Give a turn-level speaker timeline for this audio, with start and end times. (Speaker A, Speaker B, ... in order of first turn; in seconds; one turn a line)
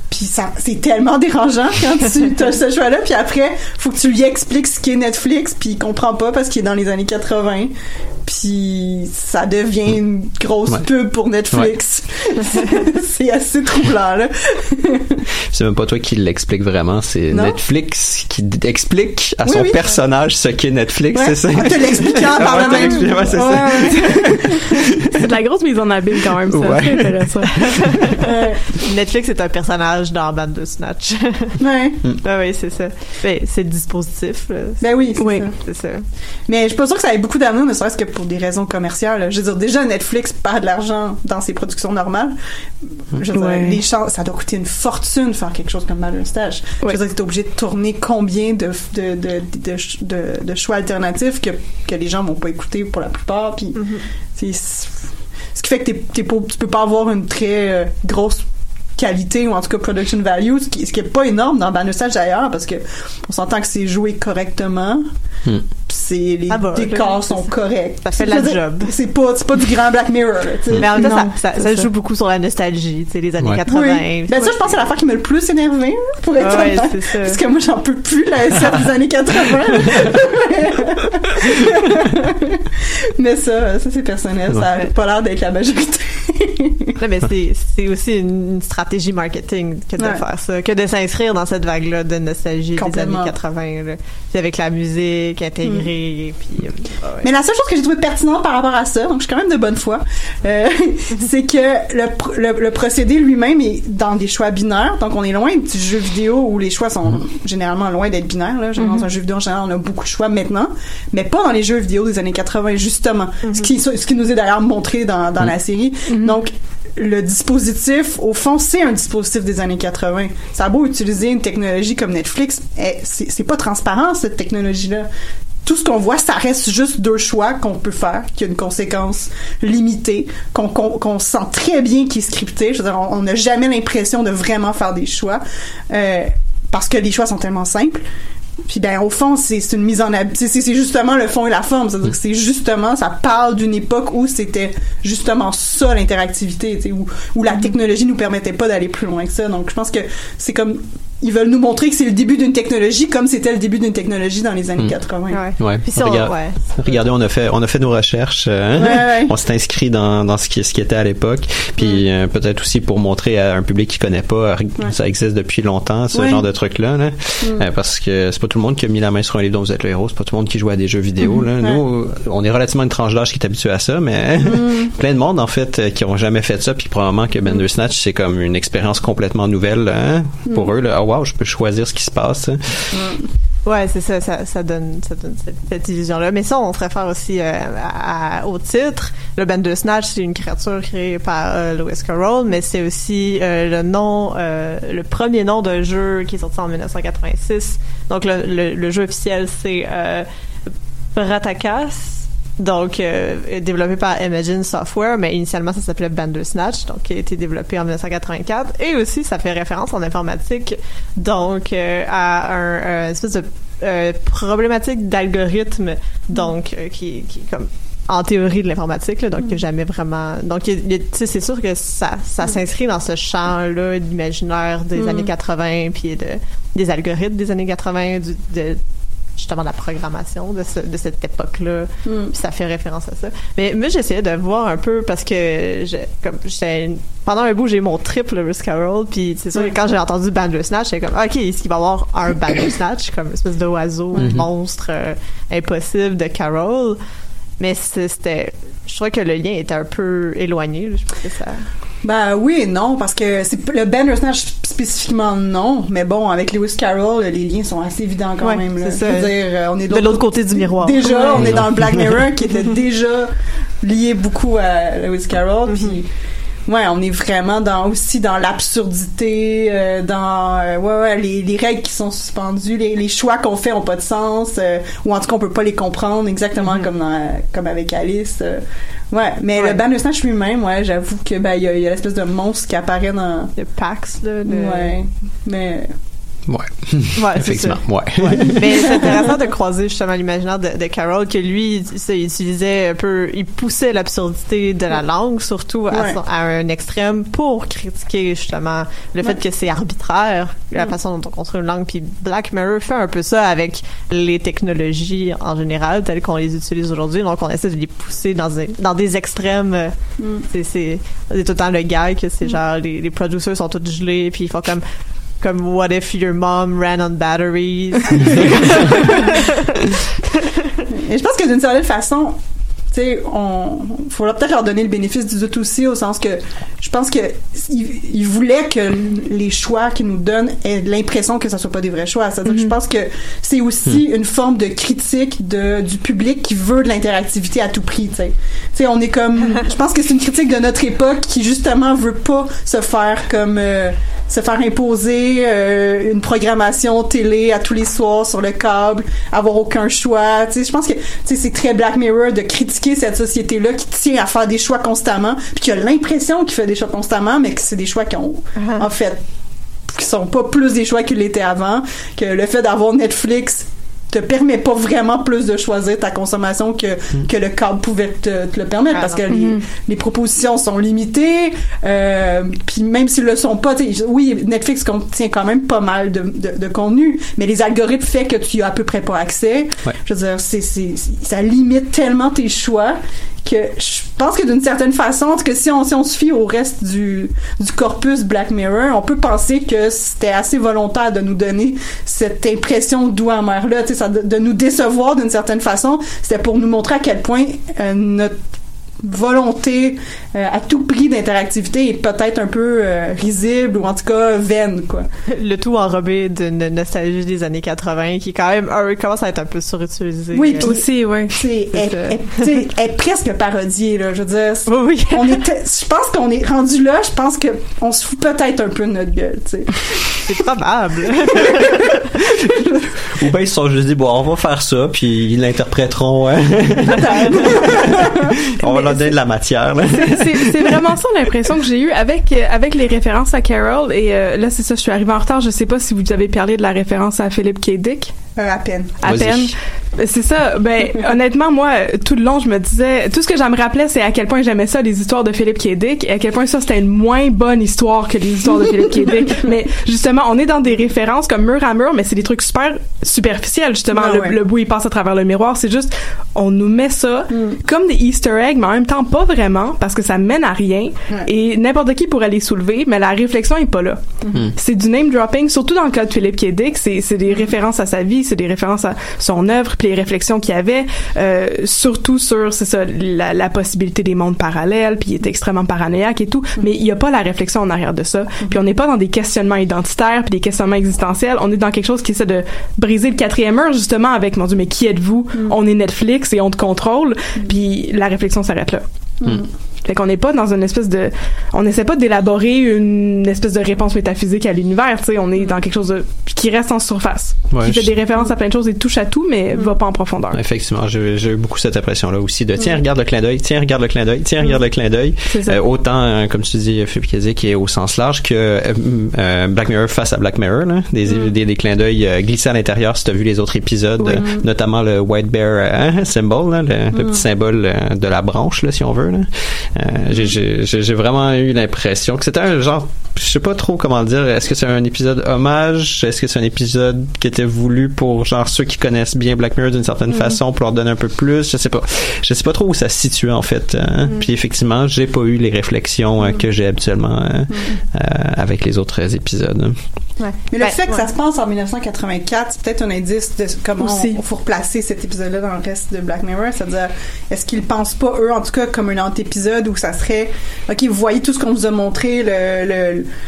Speaker A: 0.1-7.7
Speaker A: 8.2-15.2
Speaker B: 15.5-25.3
Speaker A: 17.3-17.6
Speaker A: 19.4-19.8
Speaker A: 21.1-24.9
Speaker C: 25.2-27.5
Speaker B: 26.5-27.9
Speaker D: 27.7-28.1
Speaker A: 28.2-28.6
Speaker D: 28.8-31.6
Speaker A: 31.6-32.0
Speaker D: 32.2-34.8
Speaker A: 34.8-35.5
Speaker C: 35.2-35.5
Speaker D: 35.6-36.0
Speaker A: 36.5-42.4
Speaker A: 43.1-53.8
Speaker C: 43.3-43.8
Speaker D: 53.8-54.0
Speaker A: 54.4-54.9
Speaker A: 55.5-58.4
Speaker A: 59.0-65.0
Speaker A: 65.9-71.3
Speaker D: 66.5-67.5
Speaker D: 68.0-68.9
Speaker D: 70.8-74.7
Speaker C: 71.0-71.9
Speaker A: 73.7-82.6
Speaker D: 76.4-77.4
Speaker A: 83.2-86.9
Speaker D: 87.0-97.3
Speaker A: 92.8-93.3
Speaker A: 95.6-95.9
Speaker A: 97.2-125.1
Speaker D: 113.4-113.7
Speaker C: 116.1-116.4
Speaker A: 125.7-138.0
Speaker A: 138.7-155.4
Speaker D: 155.3-156.9
Speaker B: 155.6-183.0
Speaker A: 158.8-159.3
Speaker A: 166.1-166.4
Speaker A: 174.4-174.9
Speaker A: 182.9-183.3
Speaker D: 183.7-200.3
Speaker D: 201.2-228.8
Speaker A: 224.9-225.3
Speaker D: 229.4-247.0
Speaker A: 232.1-232.3
Speaker B: 244.2-244.5
Speaker D: 247.6-251.6
Speaker A: 252.0-263.3
Speaker D: 258.4-259.3
Speaker D: 259.9-261.7
Speaker B: 261.4-262.1
Speaker A: 263.8-266.1
Speaker D: 265.7-266.0
Speaker A: 266.7-283.5
Speaker D: 276.6-276.9
Speaker D: 283.6-284.9
Speaker A: 284.5-285.9
Speaker B: 286.5-289.0
Speaker D: 287.2-309.9
Speaker A: 288.4-289.4
Speaker A: 295.9-296.2
Speaker A: 310.2-310.4
Speaker D: 310.5-314.8
Speaker D: 315.4-319.8
Speaker A: 318.3-319.2
Speaker A: 320.9-322.4
Speaker A: 322.9-359.2
Speaker C: 332.5-332.7
Speaker D: 358.6-358.9
Speaker A: 359.9-398.4
Speaker D: 368.9-369.2
Speaker C: 369.3-369.6
Speaker A: 399.0-405.1
Speaker D: 405.3-410.7
Speaker A: 410.3-420.2
Speaker C: 410.6-411.4
Speaker D: 411.7-412.1
Speaker D: 414.7-415.4
Speaker D: 420.3-421.9
Speaker A: 421.3-421.8
Speaker A: 422.4-422.9
Speaker B: 423.2-430.8
Speaker A: 426.9-428.4
Speaker C: 429.9-438.1
Speaker A: 438.4-439.0
Speaker C: 439.0-488.8
Speaker B: 439.0-439.5
Speaker A: 453.9-454.4
Speaker A: 457.3-457.6
Speaker A: 464.2-464.5
Speaker A: 467.3-467.5
Speaker A: 489.2-489.5
Speaker C: 489.8-500.4
Speaker B: 497.5-497.9
Speaker B: 500.3-539.8
Speaker C: 505.3-505.6
Speaker A: 511.1-511.4
Speaker A: 514.0-514.5
Speaker A: 516.9-517.2
Speaker A: 537.5-537.8
Speaker D: 540.2-541.1
Speaker A: 540.5-553.1
Speaker C: 543.8-544.2